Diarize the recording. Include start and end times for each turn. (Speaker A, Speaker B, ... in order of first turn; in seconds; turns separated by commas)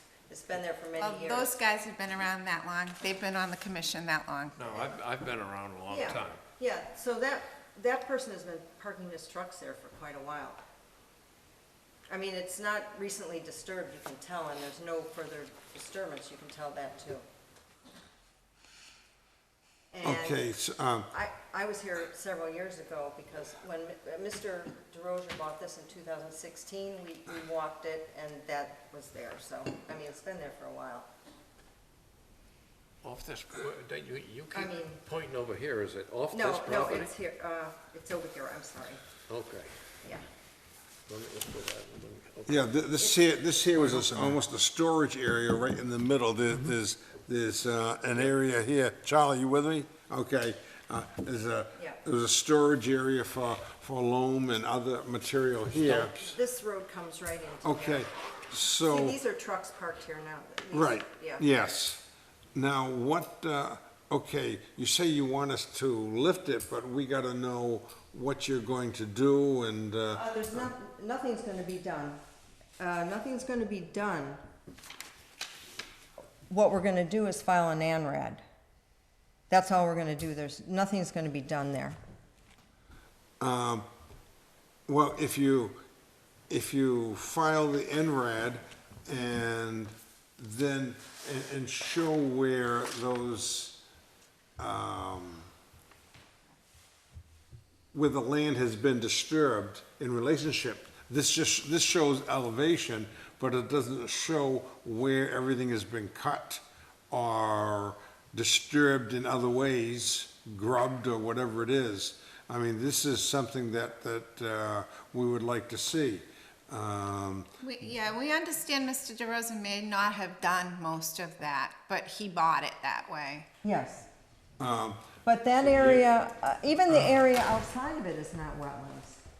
Speaker A: 0.3-1.6, Speaker B: 1.0-4.7, Speaker C: 4.6-6.4, Speaker A: 5.9-10.6, Speaker A: 12.1-17.2, Speaker A: 19.9-20.4, Speaker D: 20.0-21.1, Speaker A: 21.1-31.1, Speaker C: 33.0-37.1, Speaker A: 34.5-35.0, Speaker A: 36.3-39.0, Speaker C: 39.3-39.7, Speaker C: 41.1-42.7, Speaker D: 42.5-56.3, Speaker A: 43.0-43.8, Speaker C: 43.8-44.4, Speaker A: 55.8-58.1, Speaker D: 57.6-59.2, Speaker A: 58.8-61.4, Speaker D: 60.7-62.0, Speaker D: 62.5-70.7, Speaker A: 70.1-72.2, Speaker A: 72.8-74.4, Speaker A: 76.5-78.4, Speaker A: 79.5-82.0, Speaker D: 83.4-83.9, Speaker D: 84.9-85.8, Speaker D: 86.5-93.8, Speaker D: 94.6-95.5, Speaker D: 97.9-117.5, Speaker B: 117.6-123.5, Speaker A: 123.6-124.1, Speaker D: 124.6-125.1, Speaker A: 125.2-129.2, Speaker D: 125.7-126.0